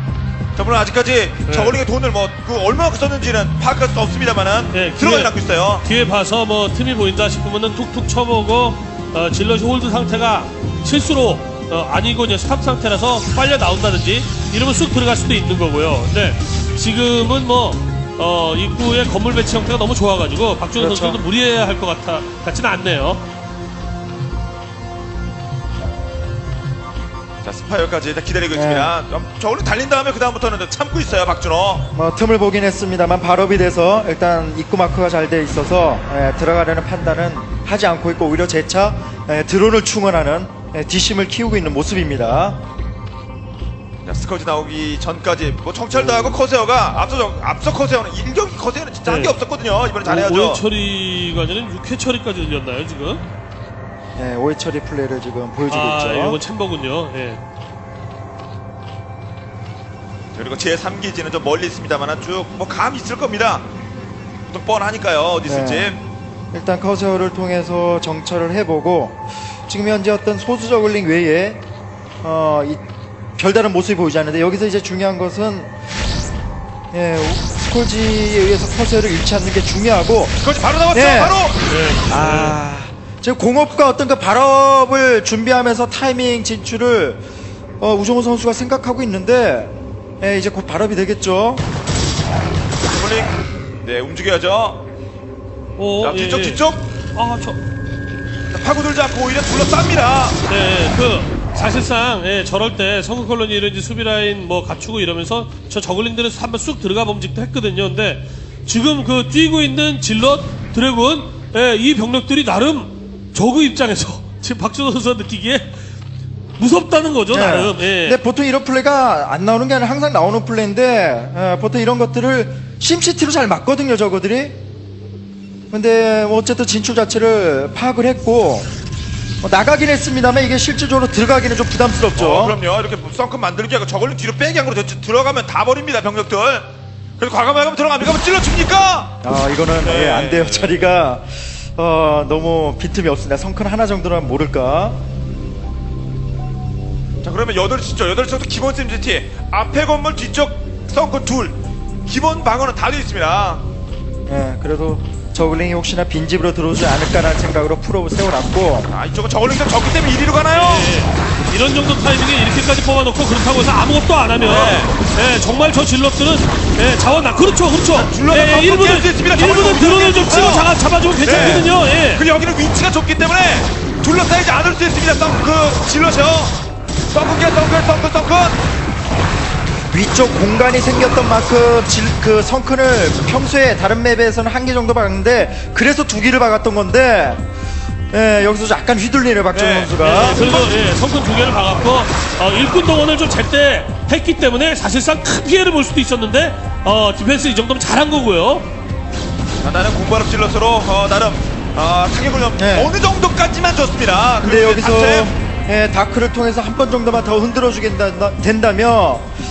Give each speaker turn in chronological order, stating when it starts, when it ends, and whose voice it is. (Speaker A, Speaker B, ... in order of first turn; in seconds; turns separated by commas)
Speaker A: 0.6-5.8, Speaker B: 1.5-1.8, Speaker B: 4.7-23.2, Speaker C: 20.8-21.2, Speaker A: 27.4-31.9, Speaker C: 28.5-28.9, Speaker C: 31.9-42.6, Speaker A: 44.0-50.6, Speaker B: 49.1-49.4, Speaker B: 50.0-53.2, Speaker C: 54.2-56.4, Speaker B: 55.7-57.4, Speaker A: 60.4-63.7, Speaker A: 64.5-66.0, Speaker C: 65.5-66.0, Speaker C: 66.5-71.6, Speaker C: 72.2-72.8, Speaker C: 73.4-75.7, Speaker C: 76.9-80.4, Speaker A: 80.4-81.6, Speaker C: 80.9-81.4, Speaker B: 81.7-82.6, Speaker C: 82.1-87.2, Speaker C: 87.8-91.7, Speaker A: 92.9-94.8, Speaker B: 95.8-96.6, Speaker A: 96.0-96.8, Speaker B: 97.2-97.6, Speaker A: 98.3-100.4, Speaker B: 100.5-115.7, Speaker B: 116.6-118.2, Speaker C: 117.3-124.5, Speaker C: 125.7-128.7, Speaker C: 129.4-132.6, Speaker A: 132.2-136.7, Speaker A: 137.2-139.1, Speaker C: 139.2-145.0, Speaker A: 139.8-140.9, Speaker A: 147.2-153.6, Speaker C: 154.3-158.9, Speaker A: 158.9-160.9, Speaker B: 160.5-172.2, Speaker A: 164.4-164.9, Speaker A: 167.9-170.7, Speaker A: 171.2-176.6, Speaker C: 171.3-171.7, Speaker A: 177.1-178.6, Speaker C: 179.9-187.4, Speaker C: 188.1-190.4, Speaker A: 189.5-190.8, Speaker B: 190.0-198.7, Speaker A: 199.6-205.3, Speaker C: 202.6-202.9, Speaker C: 204.4-209.3